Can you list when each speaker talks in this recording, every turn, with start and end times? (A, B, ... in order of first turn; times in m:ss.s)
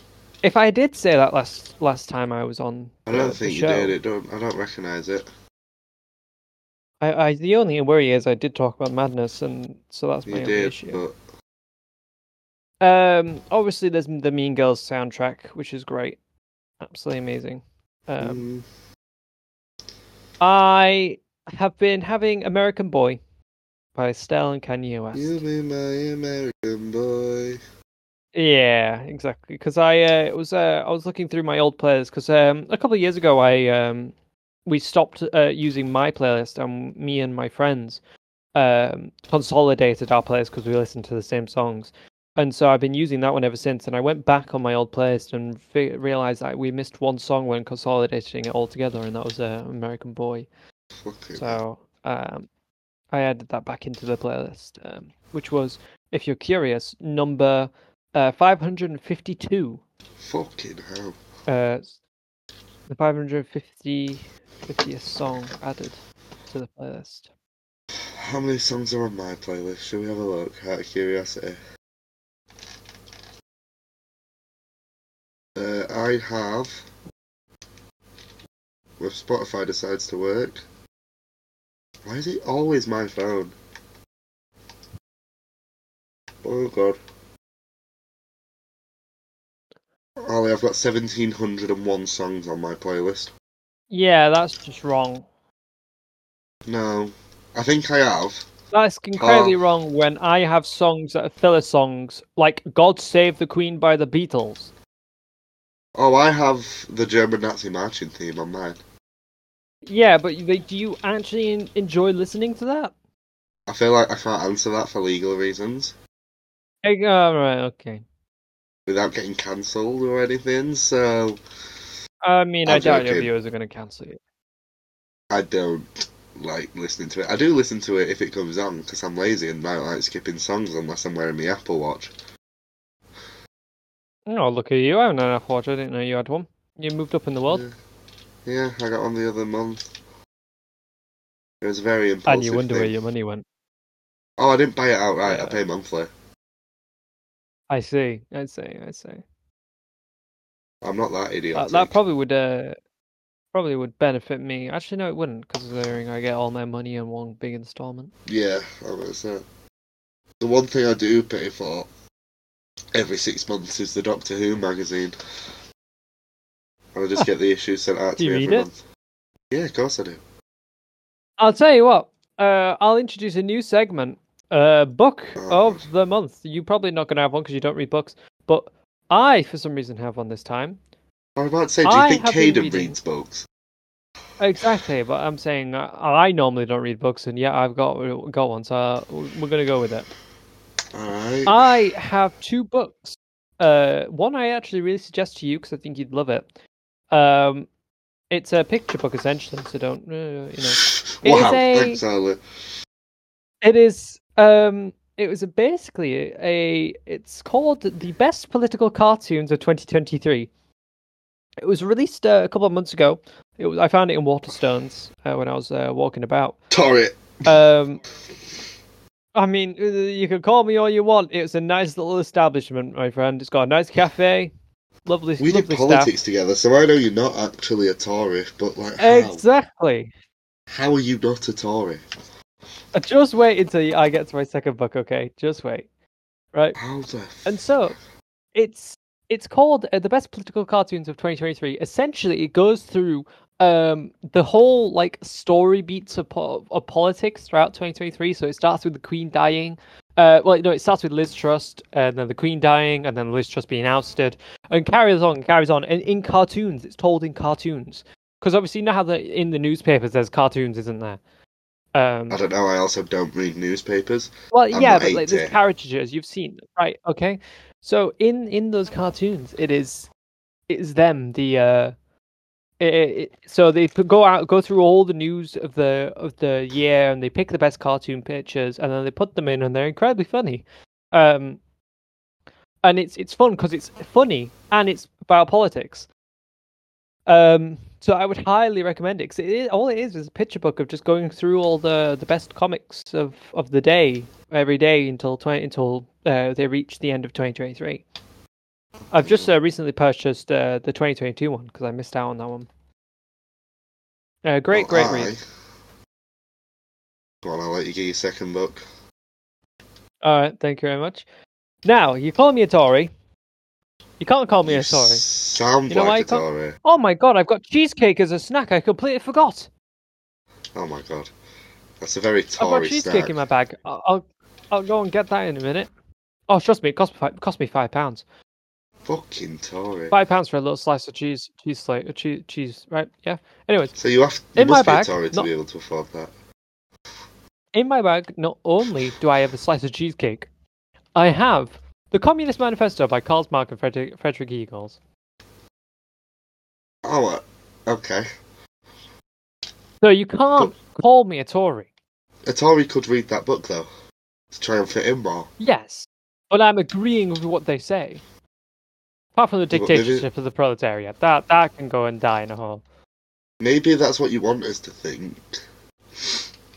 0:00.4-0:04.0 A
0:03.1-0:05.3 B
0:07.0-0:11.0 A
0:10.3-0:11.2 B
0:12.8-0:16.2 A
0:16.8-0:18.4 A
0:18.2-0:18.6 B
0:20.4-0:23.2 A
0:23.9-0:25.4 A
0:25.1-0:27.6 B
0:28.3-0:34.1 A
0:34.6-0:38.0 A
0:38.5-0:50.5 A
0:51.0-0:51.6 B
0:51.4-0:52.5 A
0:53.1-0:59.8 A
1:00.2-1:01.2 B
1:01.5-1:02.0 A
1:02.9-1:06.0 A
1:06.5-1:07.3 A
1:08.2-1:11.6 B
1:15.5-1:16.8 B
1:19.0-1:20.6 B
1:22.0-1:23.5 B
1:26.4-1:27.0 B
1:30.2-1:33.3 B
1:33.9-1:35.2 A
1:36.6-1:38.5 B
1:38.7-1:44.7 A
1:39.2-1:39.5 B
1:46.0-1:48.8 B
1:49.8-1:52.9 A
1:53.7-1:55.9 B
1:56.8-1:58.0 A
1:58.9-2:01.4 B
2:02.2-2:04.2 A
2:02.6-2:03.3 B
2:05.3-2:12.1 B
2:14.3-2:17.6 A
2:18.4-2:19.9 B
2:21.6-2:22.9 B
2:22.2-2:23.4 A
2:24.4-2:26.1 B
2:25.3-2:25.6 A
2:27.7-2:29.2 A
2:30.8-2:32.0 B
2:31.5-2:32.8 A
2:33.5-2:38.1 A
2:38.3-2:39.4 B
2:40.4-2:41.9 B
2:42.9-2:45.2 B
2:46.9-2:48.8 B
2:48.2-2:48.7 A
2:49.5-2:50.2 B
2:51.4-3:00.8 A
2:55.4-2:55.8 B
3:01.4-3:03.4 B
3:01.8-3:03.0 A
3:04.4-3:10.1 A
3:10.9-3:11.7 B
3:11.4-3:16.4 A
3:17.1-3:17.7 A
3:18.3-3:22.0 A
3:21.2-3:22.4 B
3:23.6-3:30.5 A
3:31.6-3:36.6 A
3:36.7-3:37.5 B
3:37.4-3:38.0 A
3:39.4-3:44.5 A
3:45.0-3:46.1 A
3:45.4-3:49.4 B
3:49.0-3:50.1 A
3:50.7-3:52.0 B
3:52.9-3:55.9 A
3:56.8-3:57.6 B
3:57.4-3:58.0 A
3:58.5-4:21.2 A
4:21.9-4:22.4 A
4:22.3-4:25.5 B
4:24.5-4:30.1 A
4:30.7-4:31.9 A
4:32.8-4:41.6 A
4:42.8-4:46.1 A
4:47.3-4:58.0 A
4:59.1-5:02.7 A
4:59.2-4:59.5 B
5:04.4-5:05.3 A
5:04.7-5:05.4 B
5:07.4-5:08.8 B
5:10.2-5:11.2 A
5:11.8-5:13.1 A
5:14.2-5:15.2 A
5:14.6-5:16.8 B
5:15.9-5:19.7 A
5:20.7-5:21.3 B
5:22.0-5:23.3 B
5:22.6-5:25.9 A
5:26.5-5:28.2 A
5:29.0-5:30.1 B
5:30.1-5:34.0 A
5:34.0-5:36.3 B
5:34.5-5:35.5 A
5:37.7-5:40.5 A
5:41.2-5:45.0 A
5:47.0-5:48.3 B
5:50.0-5:51.9 A
5:52.4-5:53.9 B
5:54.5-5:55.5 B
5:55.6-5:58.2 A
5:59.4-6:02.8 A
5:59.7-6:00.3 B
6:03.6-6:05.5 B